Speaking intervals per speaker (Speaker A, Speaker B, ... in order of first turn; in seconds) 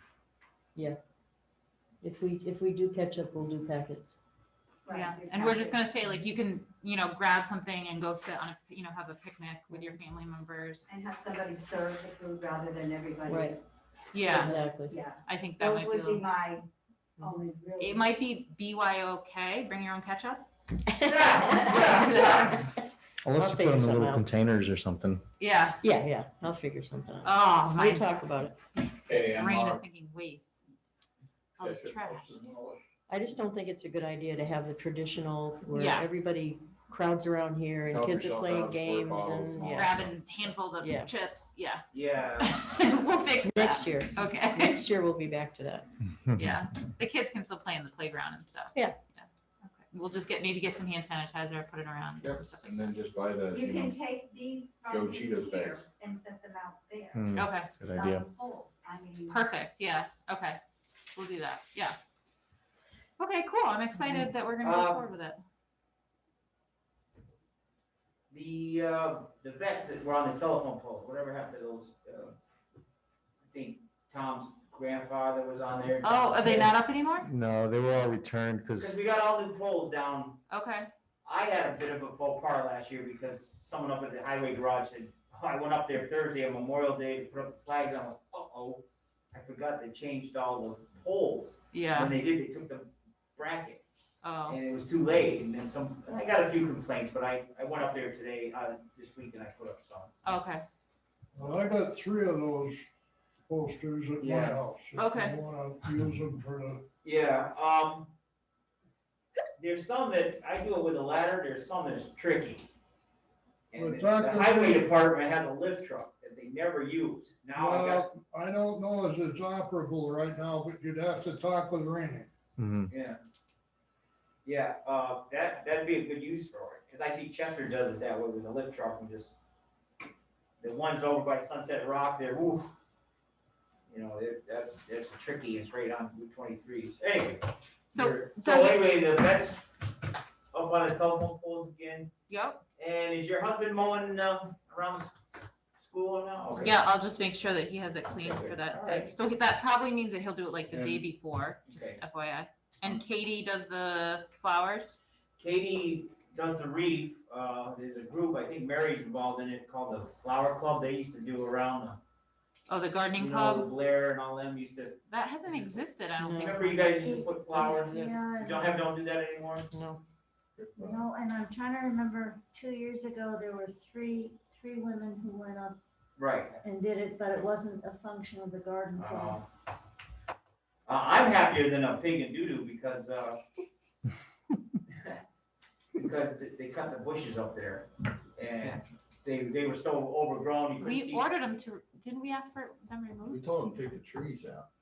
Speaker A: 2.0-4.2, 9.7-10.0, 13.2-13.6, 14.3-15.0, 20.9-21.5, 23.3-24.3, 25.8-28.6, 33.1-40.0, 40.8-41.1, 43.4-45.9, 166.2-168.6, 169.7-170.0
Speaker B: 4.9-5.7, 10.9-13.6, 14.5-16.6, 17.2-17.9, 53.5-57.2, 57.9-59.3
Speaker C: 4.9-10.9, 14.1-14.6, 15.2-16.3, 17.8-20.4, 21.5-22.7, 25.4-25.8, 27.2-28.2, 29.1-30.6, 31.5-32.4, 35.7-36.1, 39.7-41.8, 42.4-44.8, 46.4-49.3, 49.9-52.8, 57.3-57.8, 59.3-60.6, 61.1-62.0, 63.2-65.4, 76.0-77.3, 80.5-80.9, 91.7-92.1, 94.2-94.6, 100.2-100.6, 104.9-105.4, 137.9-138.8, 142.3-142.6, 146.6-155.0, 162.7-163.7, 165.1-166.9, 190.8-193.4
Speaker D: 21.0-22.6, 41.9-42.5, 64.6-65.1, 68.3-72.3, 73.5-76.7, 78.7-80.4, 81.2-93.8, 94.5-100.2, 104.2-104.6, 107.0-108.1, 109.6-112.7, 113.7-118.1, 122.9-123.2, 124.4-129.4, 130.6-132.7, 133.9-139.7, 140.5-142.1, 142.8-145.2, 145.8-146.8, 148.2-149.1, 151.7-152.0, 155.4-162.0, 163.1-165.8, 166.3-169.7, 176.2-176.6, 178.9-179.4, 180.8-183.4, 184.9-185.2, 185.9-191.3
Speaker E: 23.2-25.2, 57.1-58.3, 77.2-79.0, 122.6-122.9
Speaker F: 29.1-29.8, 31.6-32.8, 37.9-40.1, 52.2-54.0, 54.9-55.9, 150.7-151.0, 170.6-171.1, 193.2-194.7
Speaker G: 101.3-102.9, 103.5-106.8, 113.7-114.9, 117.5-122.3
Speaker H: 167.0-168.7, 170.8-175.7, 176.6-179.4